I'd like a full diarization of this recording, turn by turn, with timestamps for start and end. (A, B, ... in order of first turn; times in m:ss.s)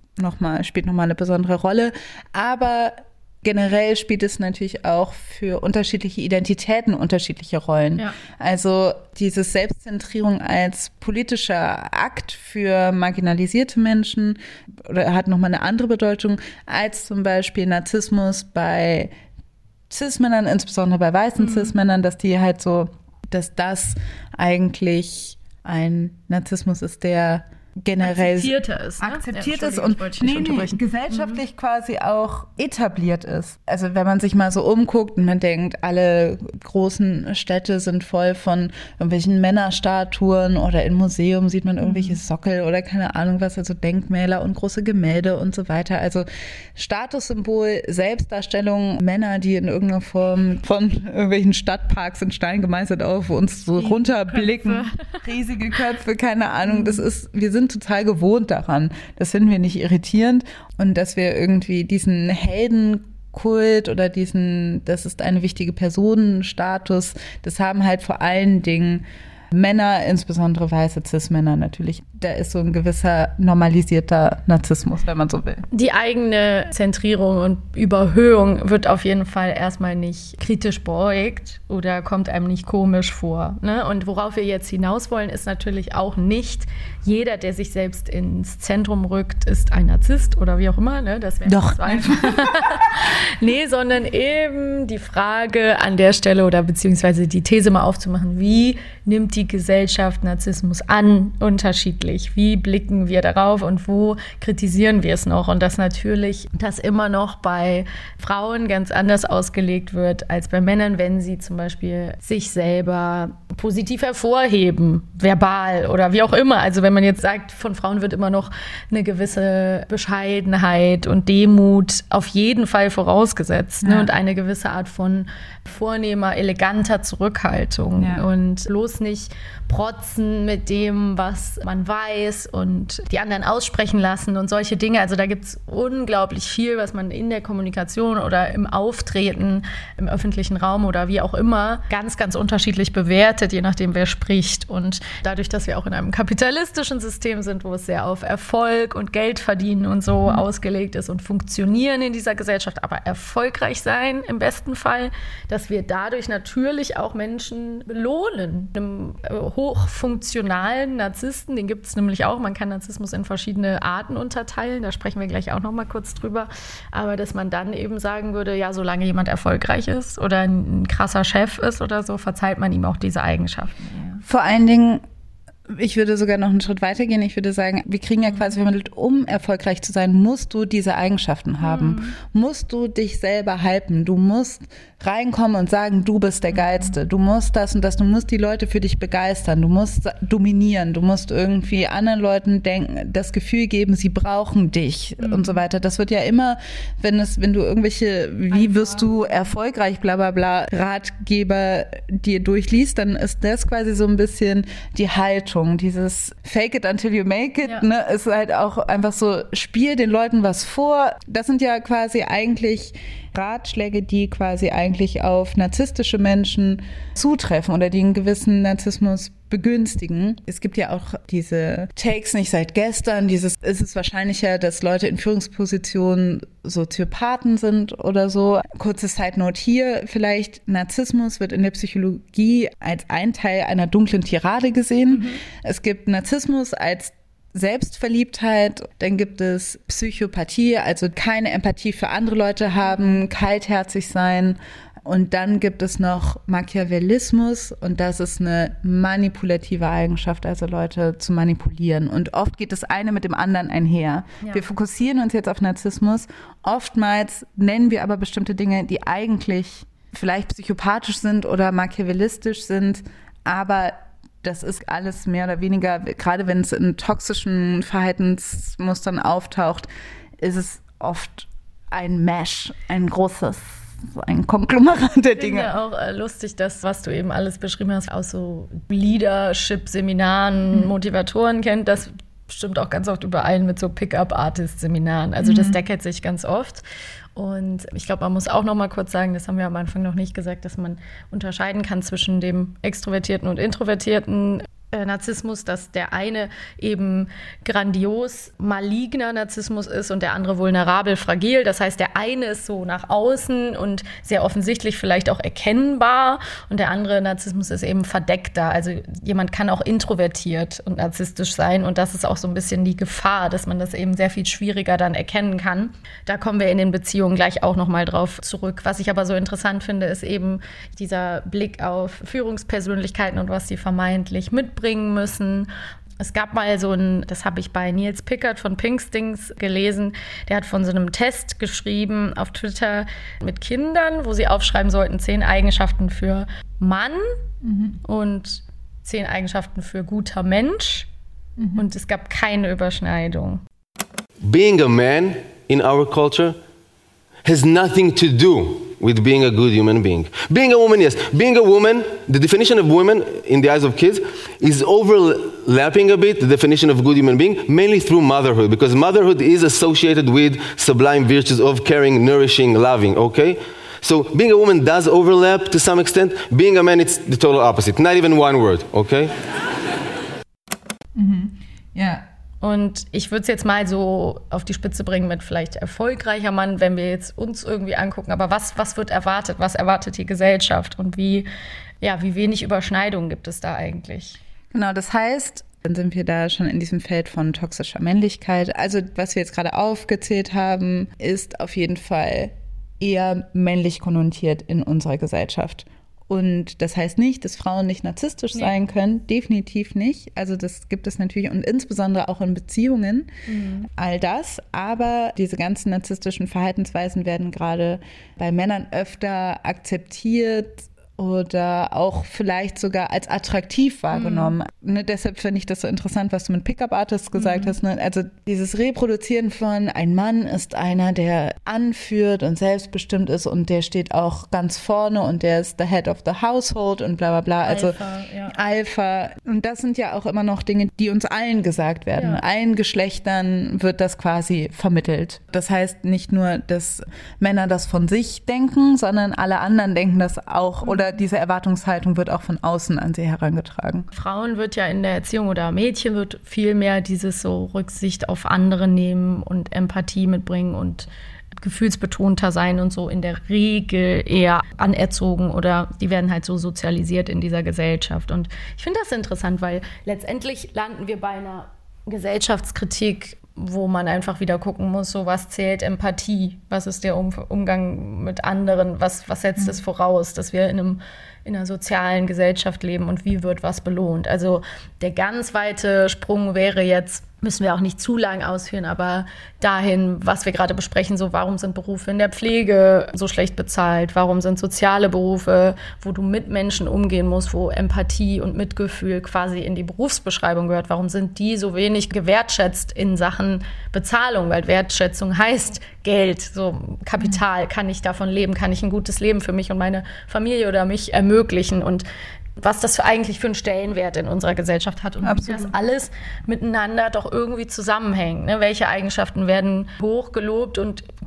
0:00.2-0:19.1 A
0:19.9-1:15.6 A
0:21.4-0:21.7 B
0:28.0-0:31.4 B
0:41.8-0:42.2 B
0:53.7-0:55.2 B
0:56.6-0:57.0 B
1:15.7-2:54.2 B
1:31.4-1:32.9 A
2:03.8-2:04.1 A
2:08.0-2:08.2 A
2:54.2-2:55.0 A
2:55.7-4:35.7 A
2:58.2-2:58.5 B
3:01.6-3:02.2 B
3:06.5-3:06.9 B
3:15.2-3:15.6 B
3:18.5-3:19.4 B
3:55.1-3:55.4 B
4:02.8-4:03.2 B
4:35.4-4:46.8 B
4:45.4-4:45.8 A
4:47.4-5:37.4 B
5:37.6-5:38.0 A
5:38.0-5:41.1 B
5:41.6-5:41.8 A
5:41.7-5:43.6 B
5:44.4-5:46.6 C
5:47.4-6:09.3 C
6:11.1-6:12.2 A
6:12.6-6:21.5 B
6:22.0-6:24.4 B
6:24.7-6:43.3 A
6:43.5-6:43.9 B
6:44.0-7:08.0 A
6:54.1-6:54.5 B
6:57.3-6:57.8 B
7:07.6-7:08.6 B
7:08.5-7:24.0 A
7:12.1-7:12.4 B
7:20.8-7:21.2 B
7:24.1-8:22.0 B
8:22.6-8:31.0 B
8:25.2-8:25.7 A